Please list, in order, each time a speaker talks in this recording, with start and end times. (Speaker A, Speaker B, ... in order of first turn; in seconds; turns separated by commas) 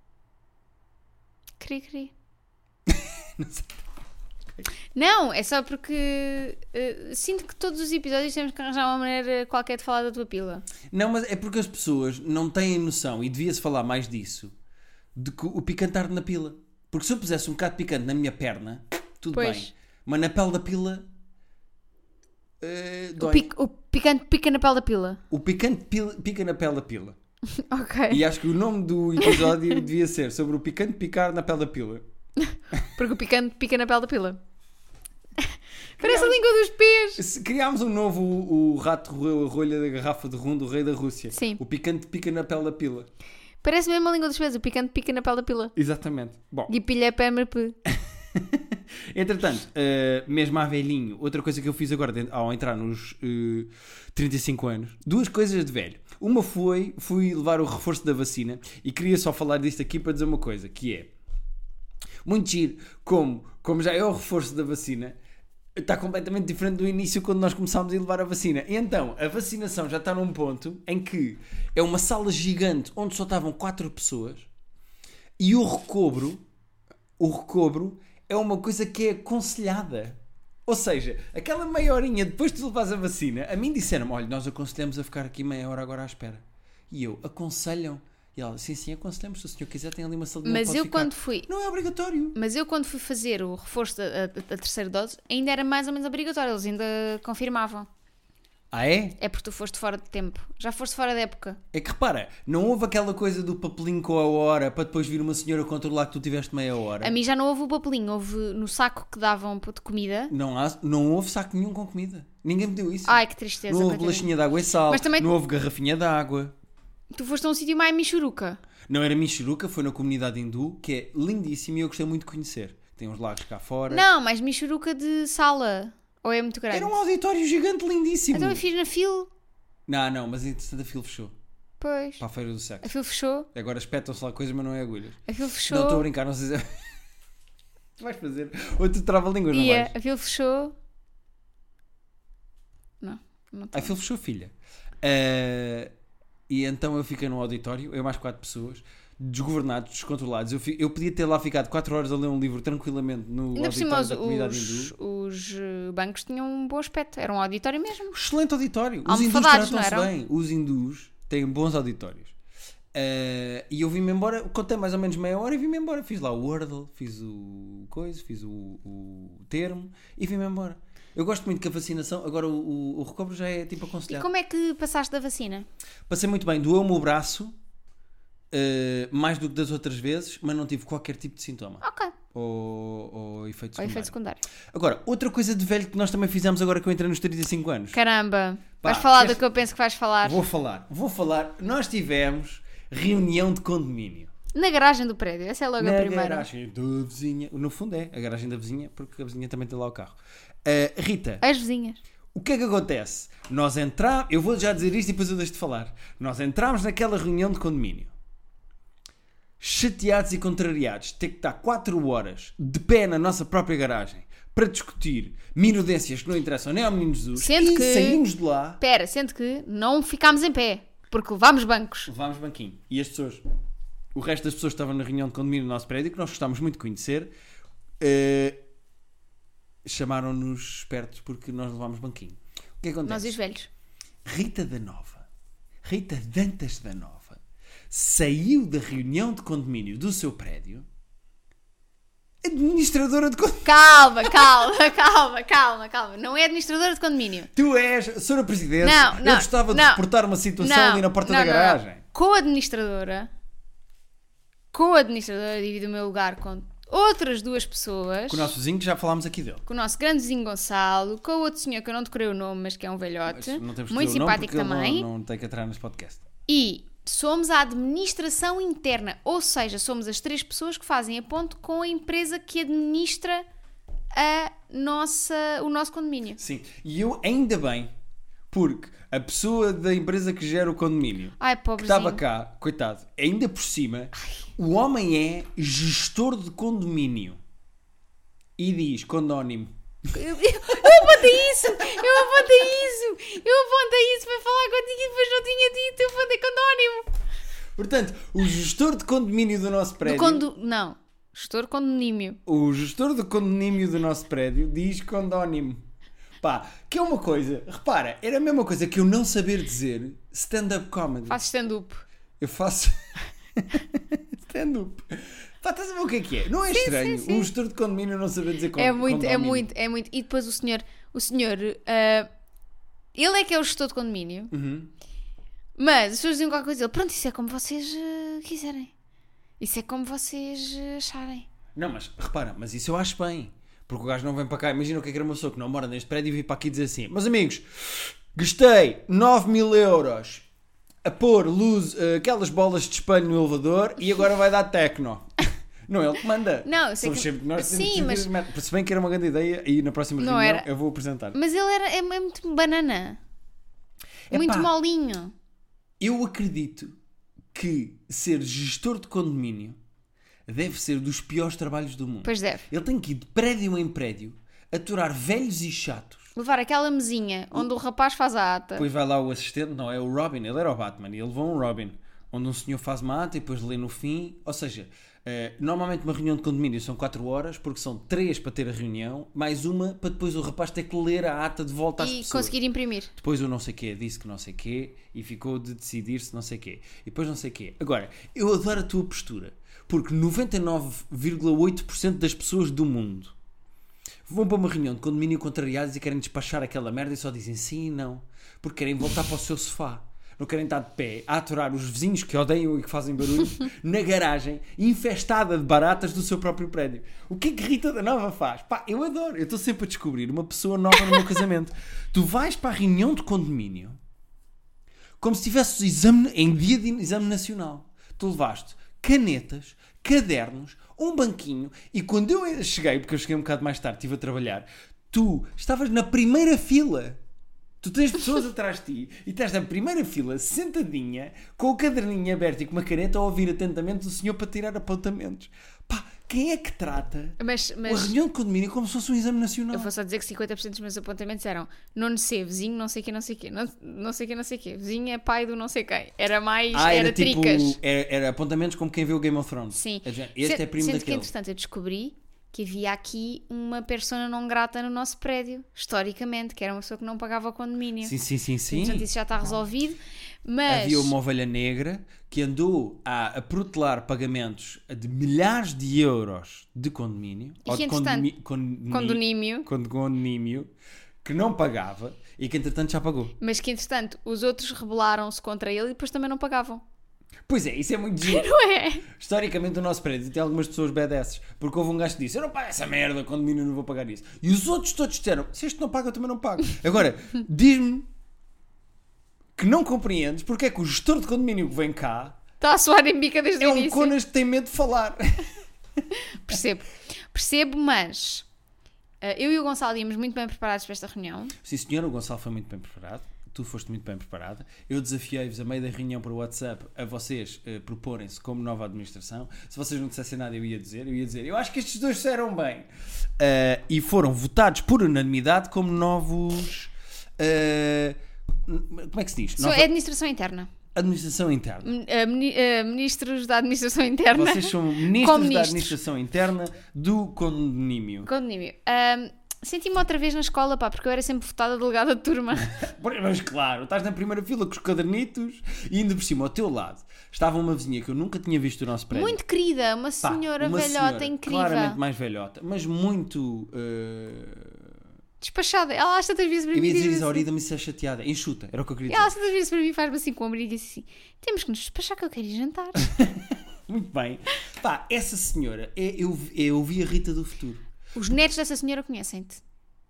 Speaker A: 1.6-2.1, Speaker B: 2.9-3.8, Speaker A: 4.9-10.6, Speaker B: 10.9-14.5, Speaker B: 15.1-21.1, Speaker A: 19.3-19.7, Speaker B: 22.6-23.5, Speaker A: 23.2-25.2, Speaker B: 25.3-27.1, Speaker A: 27.5-28.2, Speaker B: 28.1-32.0, Speaker A: 29.2-29.5, Speaker A: 32.4-34.4, Speaker A: 36.0-37.2, Speaker B: 36.0-36.4, Speaker B: 37.2-43.1, Speaker A: 41.3-41.6, Speaker A: 43.6-45.7, Speaker B: 45.8-46.7, Speaker A: 46.7-47.8, Speaker B: 47.9-61.1, Speaker B: 62.2-65.2, Speaker B: 65.8-74.5, Speaker B: 75.4-76.4, Speaker B: 77.2-92.4, Speaker A: 90.4-91.5, Speaker A: 92.3-97.9, Speaker B: 98.7-99.2, Speaker A: 99.2-101.6, Speaker B: 101.7-107.1, Speaker A: 107.0-110.3, Speaker B: 110.3-116.5, Speaker A: 113.0-114.3, Speaker A: 114.9-115.3, Speaker A: 117.1-118.6, Speaker B: 118.9-124.0, Speaker A: 123.9-126.9, Speaker B: 126.7-128.6, Speaker A: 128.3-129.3, Speaker B: 129.9-131.3, Speaker A: 131.8-132.2, Speaker B: 132.2-132.9, Speaker A: 132.8-133.5, Speaker B: 133.5-137.0, Speaker A: 135.3-136.1, Speaker B: 138.0-139.9, Speaker A: 139.5-140.7, Speaker A: 143.0-143.9, Speaker B: 143.7-145.9, Speaker B: 146.5-154.9, Speaker A: 153.5-158.2, Speaker B: 158.1-162.3, Speaker A: 159.1-160.1, Speaker B: 162.9-174.3, Speaker A: 174.1-175.7, Speaker B: 176.1-177.5, Speaker B: 178.5-181.8, Speaker A: 181.8-182.1, Speaker B: 182.3-184.1, Speaker A: 183.8-184.4, Speaker B: 184.7-188.0, Speaker A: 187.9-190.4, Speaker B: 188.8-189.5, Speaker B: 190.2-194.3, Speaker A: 194.5-196.5, Speaker B: 195.8-201.4, Speaker A: 201.4-202.0, Speaker B: 202.3-208.1, Speaker B: 209.6-218.8, Speaker A: 217.3-218.2, Speaker A: 218.8-222.1, Speaker B: 222.1-223.4, Speaker B: 224.1-227.3, Speaker B: 228.0-228.6, Speaker B: 229.8-233.4, Speaker A: 233.0-233.7, Speaker B: 234.2-235.3, Speaker B: 235.8-240.9, Speaker B: 242.4-244.7, Speaker A: 243.6-247.5, Speaker B: 247.5-252.0, Speaker A: 248.8-250.0, Speaker A: 250.6-253.3, Speaker A: 254.7-258.5, Speaker B: 258.3-259.6, Speaker A: 259.6-265.1, Speaker B: 263.3-266.2, Speaker A: 266.5-273.4, Speaker A: 274.1-276.4, Speaker B: 276.4-277.9, Speaker B: 278.5-287.4, Speaker A: 281.4-282.2, Speaker B: 288.6-289.7, Speaker A: 290.1-297.1, Speaker B: 290.7-292.2, Speaker B: 297.8-300.4, Speaker A: 300.0-302.4, Speaker B: 302.4-305.8, Speaker B: 306.4-311.4, Speaker A: 311.3-312.0, Speaker B: 312.4-319.7, Speaker A: 316.7-317.5, Speaker A: 318.8-322.3, Speaker A: 323.1-324.5, Speaker B: 324.5-324.9, Speaker A: 325.8-328.9, Speaker A: 329.6-331.5, Speaker B: 331.7-340.4, Speaker B: 341.0-345.3, Speaker B: 345.9-351.4, Speaker A: 346.6-348.3, Speaker A: 350.2-350.7, Speaker A: 351.3-353.2, Speaker B: 354.3-354.7, Speaker A: 354.3-355.3, Speaker B: 356.0-356.9, Speaker B: 357.5-359.8, Speaker B: 360.5-366.3, Speaker A: 362.2-362.7, Speaker A: 366.3-368.9, Speaker B: 368.8-382.5, Speaker A: 382.0-383.1, Speaker B: 383.1-393.3, Speaker B: 394.2-414.0, Speaker B: 415.2-427.2, Speaker B: 427.8-439.9, Speaker A: 437.4-438.2, Speaker A: 439.7-447.8, Speaker B: 446.7-451.3, Speaker A: 449.7-458.1, Speaker B: 458.0-459.1, Speaker A: 458.7-461.1, Speaker B: 460.7-470.7, Speaker A: 467.6-468.3, Speaker A: 468.9-469.7, Speaker B: 471.2-473.3, Speaker A: 473.4-476.8, Speaker B: 477.5-478.5, Speaker A: 478.2-479.1, Speaker B: 479.1-488.1, Speaker B: 489.6-492.4, Speaker A: 492.6-494.1, Speaker B: 493.6-495.5, Speaker A: 496.1-498.4, Speaker A: 499.2-501.5, Speaker B: 501.6-519.9, Speaker A: 519.6-520.7, Speaker B: 520.9-521.9, Speaker A: 521.8-526.0, Speaker B: 524.3-528.3, Speaker A: 528.2-532.8, Speaker B: 532.6-539.4, Speaker A: 539.1-542.0, Speaker B: 540.2-544.9, Speaker A: 545.4-547.4, Speaker B: 546.7-549.3, Speaker A: 549.1-553.1, Speaker B: 553.0-557.8, Speaker A: 558.1-559.6